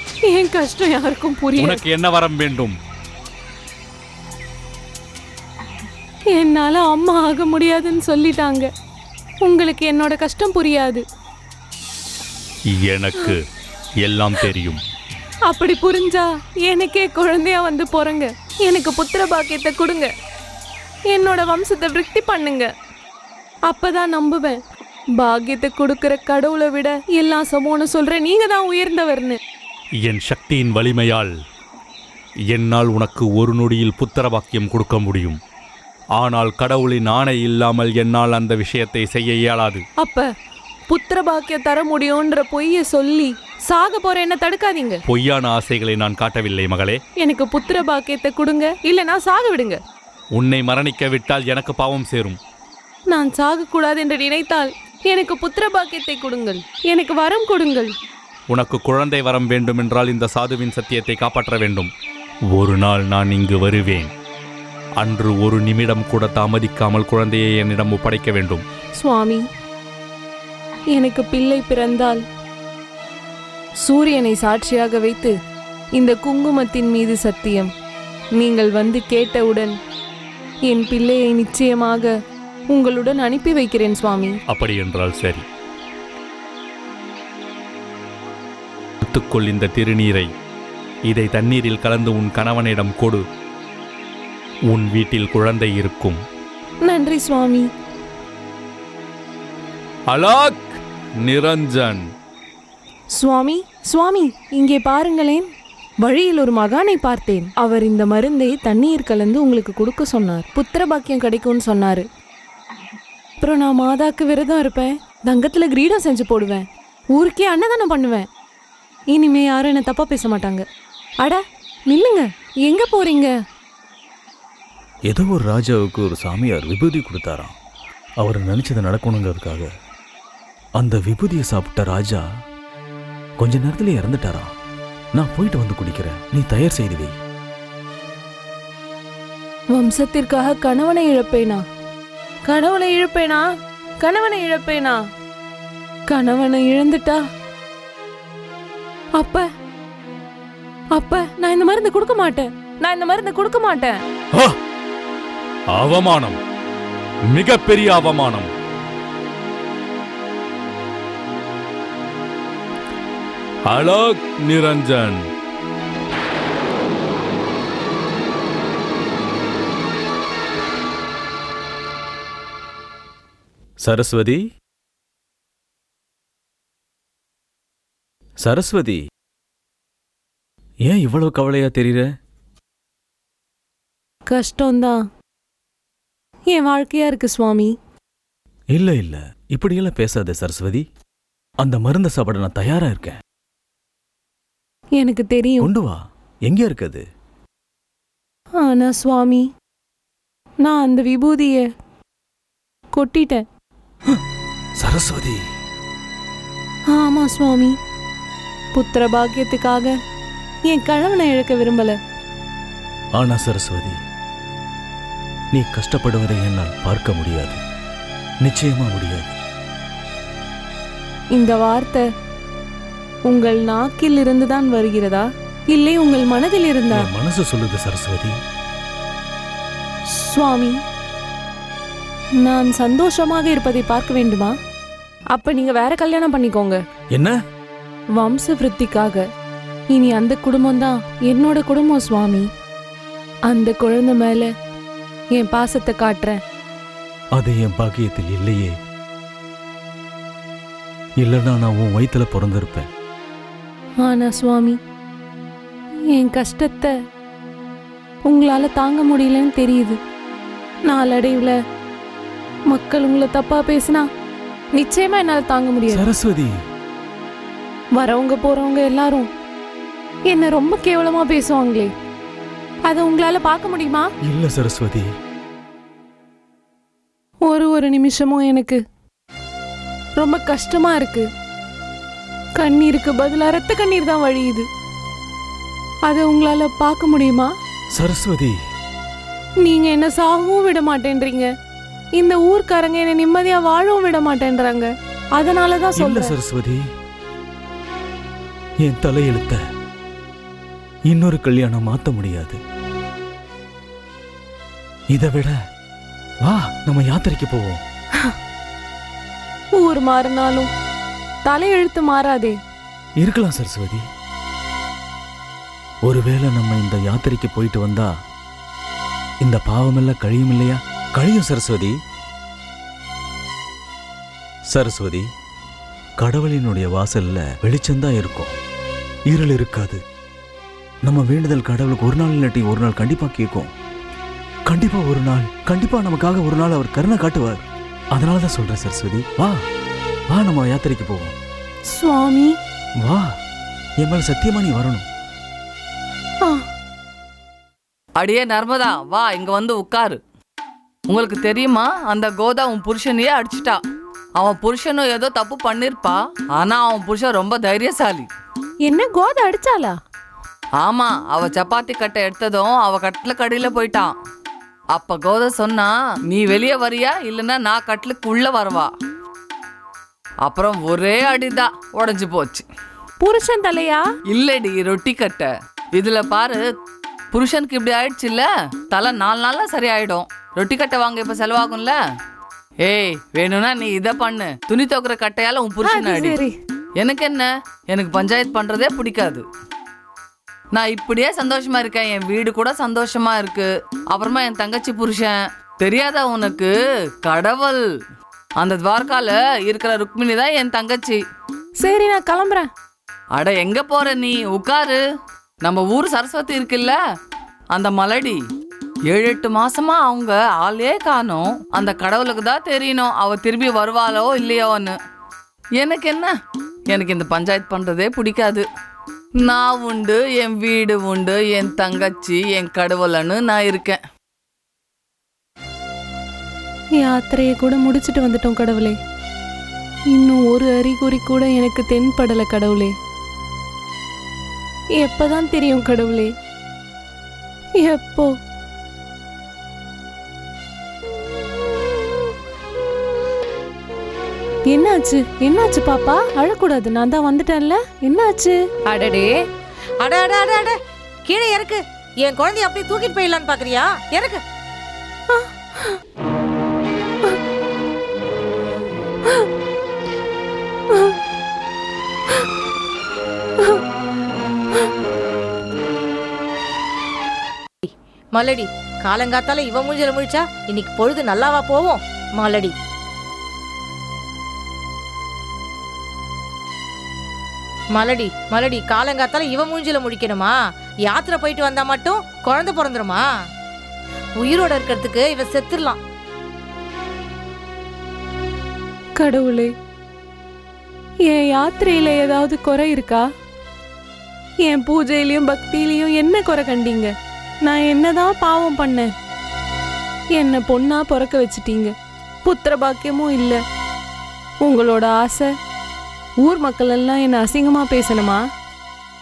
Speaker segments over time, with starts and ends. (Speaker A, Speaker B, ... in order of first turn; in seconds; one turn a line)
Speaker A: 0.3-1.8
Speaker B: 1.6-2.8
Speaker A: 6.3-8.7
Speaker A: 9.4-11.0
Speaker B: 12.7-13.4
Speaker B: 14.0-14.8
Speaker A: 15.5-20.1
Speaker A: 21.1-22.7
Speaker A: 23.7-24.6
Speaker A: 25.2-29.4
Speaker B: 30.0-31.3
Speaker B: 32.5-35.4
Speaker B: 36.2-39.8
Speaker A: 40.0-40.3
Speaker A: 40.9-45.0
Speaker B: 45.1-47.0
Speaker A: 47.2-49.8
Speaker B: 50.3-52.4
Speaker A: 53.1-57.9
Speaker B: 58.5-61.9
Speaker B: 62.5-64.1
Speaker B: 65.0-68.6
Speaker A: 69.0-69.4
Speaker A: 70.9-72.2
Speaker A: 73.8-75.3
Speaker A: 76.0-77.7
Speaker A: 78.3-79.8
Speaker A: 80.7-82.1
Speaker A: 82.7-84.3
Speaker B: 84.5-85.4
Speaker B: 89.0-90.3
Speaker B: 91.1-93.2
Speaker B: 94.7-96.2
Speaker A: 96.8-97.7
Speaker B: 100.1-102.0
Speaker A: 103.1-105.5
Speaker A: 106.0-112.0
Speaker A: 113.4-116.6
Speaker A: 117.1-118.2
Speaker A: 119.1-120.6
Speaker A: 121.2-123.3
Speaker C: 125.1-127.5
Speaker C: 128.2-129.7
Speaker C: 130.8-132.2
Speaker C: 133.4-134.5
Speaker C: 135.2-137.1
Speaker A: 139.7-141.6
Speaker A: 142.5-143.4
Speaker A: 144.0-145.0
Speaker A: 146.1-147.2
Speaker A: 149.2-149.5
Speaker A: 150.9-154.0
Speaker B: 155.8-156.4
Speaker B: 157.3-158.5
Speaker B: 163.7-165.2
Speaker C: 173.8-174.4
Speaker C: 178.4-179.0
Speaker C: 180.9-182.1
Speaker A: 184.3-185.0
Speaker A: 186.5-187.7
Speaker C: 188.7-190.8
Speaker C: 191.6-193.2
Speaker A: 195.0-195.7
Speaker C: 195.6-197.0
Speaker A: 198.6-199.5
Speaker A: 200.6-201.7
Speaker A: 202.9-203.4
Speaker C: 204.8-205.4
Speaker A: 206.9-207.8
Speaker A: 208.8-209.9
Speaker A: 210.7-212.0
Speaker C: 213.2-214.0
Speaker C: 215.5-217.6
Speaker C: 218.4-219.3
Speaker A: 221.3-222.0
Speaker A: 223.3-227.1
Speaker C: 226.9-228.4
Speaker A: 230.1-230.8
Speaker A: 232.4-234.5
Speaker A: 235.3-236.8
Speaker A: 238.2-239.2
Speaker A: 239.9-242.5
Speaker A: 243.5-244.5
Speaker A: 245.3-246.4
Speaker C: 247.3-248.7
Speaker C: 251.2-252.9
Speaker A: 254.0-254.8
Speaker A: 256.1-256.9
Speaker A: 258.3-260.0
Speaker A: 260.9-261.6
Speaker A: 262.7-264.1
Speaker A: 264.8-266.0
Speaker C: 265.9-266.5
Speaker A: 268.0-269.3
Speaker A: 270.3-271.9
Speaker A: 272.9-274.1
Speaker C: 274.2-275.1
Speaker A: 277.5-278.8
Speaker A: 280.2-281.3
Speaker A: 282.6-284.7
Speaker A: 286.1-287.5
Speaker C: 287.9-288.5
Speaker A: 289.6-291.5
Speaker A: 292.1-296.3
Speaker C: 295.9-296.8
Speaker C: 298.8-299.6
Speaker C: 301.1-302.6
Speaker C: 305.1-305.5
Speaker C: 306.4-307.8
Speaker A: 309.8-310.7
Speaker A: 311.4-312.6
Speaker C: 313.2-314.1
Speaker C: 316.0-318.1
Speaker C: 319.4-321.9
Speaker C: 324.7-325.2
Speaker C: 326.2-328.5
Speaker C: 329.3-330.0
Speaker C: 331.0-333.7
Speaker C: 334.7-339.6
Speaker C: 340.3-341.3
Speaker A: 341.9-342.5
Speaker C: 343.0-343.3
Speaker C: 344.0-345.0
Speaker D: 348.2-350.2
Speaker D: 351.1-353.8
Speaker D: 354.4-358.3
Speaker A: 358.8-359.9
Speaker D: 360.8-364.1
Speaker D: 364.9-368.9
Speaker D: 370.4-372.6
Speaker A: 373.2-374.0
Speaker D: 374.3-376.6
Speaker D: 377.3-382.0
Speaker D: 382.8-386.4
Speaker A: 385.8-386.5
Speaker D: 387.0-389.4
Speaker D: 390.7-397.8
Speaker D: 398.6-401.2
Speaker A: 401.8-402.7
Speaker D: 403.4-405.0
Speaker D: 405.6-407.0
Speaker D: 407.7-408.4
Speaker D: 409.1-415.0
Speaker D: 415.8-416.4
Speaker D: 416.9-418.6
Speaker D: 419.4-424.0
Speaker A: 427.0-429.0
Speaker A: 430.1-432.9
Speaker A: 435.0-436.3
Speaker A: 437.8-438.3
Speaker A: 441.4-442.2
Speaker A: 444.7-449.3
Speaker E: 450.0-454.4
Speaker A: 455.3-456.0
Speaker E: 467.8-472.7
Speaker E: 477.9-480.5
Speaker E: 481.1-483.2
Speaker E: 484.4-486.0
Speaker A: 489.2-489.7
Speaker A: 491.3-493.2
Speaker A: 494.6-497.1
Speaker A: 497.6-499.1
Speaker A: 500.4-501.9
Speaker A: 502.4-503.6
Speaker A: 504.6-505.5
Speaker A: 506.4-508.4